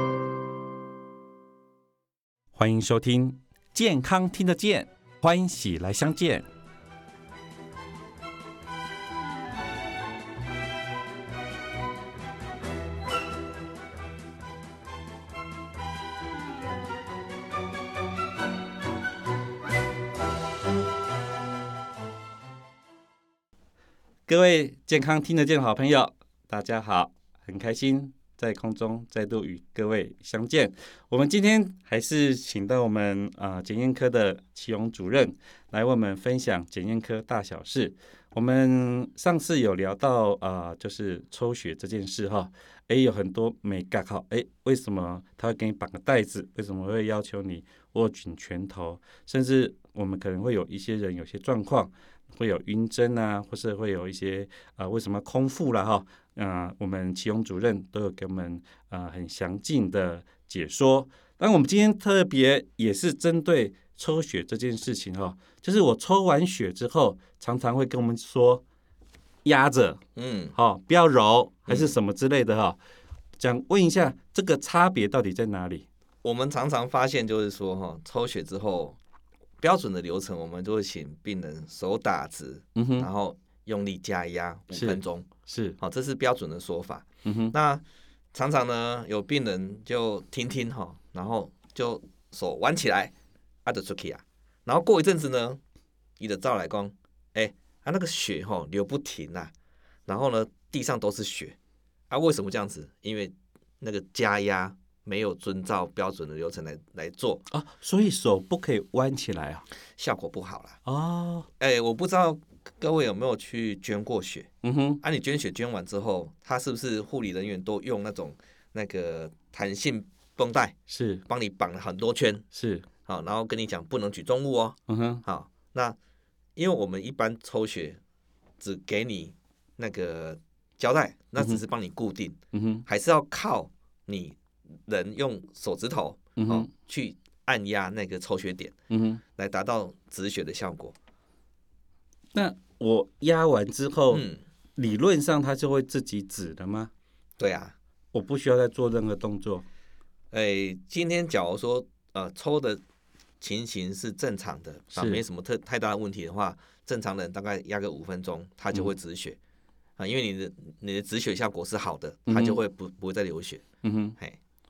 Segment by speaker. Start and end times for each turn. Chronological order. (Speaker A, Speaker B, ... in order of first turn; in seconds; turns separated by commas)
Speaker A: 2.5-6.5, Speaker A: 24.3-68.6, Speaker A: 69.5-70.0, Speaker B: 70.2-70.5, Speaker A: 70.5-72.8, Speaker B: 71.7-72.0, Speaker A: 73.4-75.8, Speaker B: 76.2-79.0, Speaker B: 79.6-93.1, Speaker A: 82.8-83.1, Speaker A: 84.7-85.8, Speaker A: 87.2-87.5, Speaker B: 93.7-95.6, Speaker B: 96.2-99.5, Speaker B: 100.1-101.6, Speaker B: 102.1-107.5, Speaker A: 107.5-109.7, Speaker B: 110.0-110.8, Speaker A: 110.8-111.5, Speaker B: 111.6-114.5, Speaker A: 114.6-115.0, Speaker B: 115.0-122.5, Speaker A: 120.9-121.2, Speaker A: 122.5-122.9, Speaker B: 123.0-126.0, Speaker A: 124.9-125.2, Speaker B: 126.6-128.0, Speaker B: 128.6-138.7, Speaker A: 132.5-132.8, Speaker A: 136.4-136.7, Speaker A: 138.9-139.2, Speaker B: 139.4-141.0, Speaker A: 142.3-144.2, Speaker B: 144.1-144.4, Speaker A: 144.8-146.9, Speaker B: 147.4-147.8, Speaker A: 148.1-149.7, Speaker B: 150.3-152.8, Speaker B: 153.4-159.4, Speaker A: 154.9-155.2, Speaker B: 160.0-163.6, Speaker A: 162.3-162.6, Speaker A: 163.8-164.2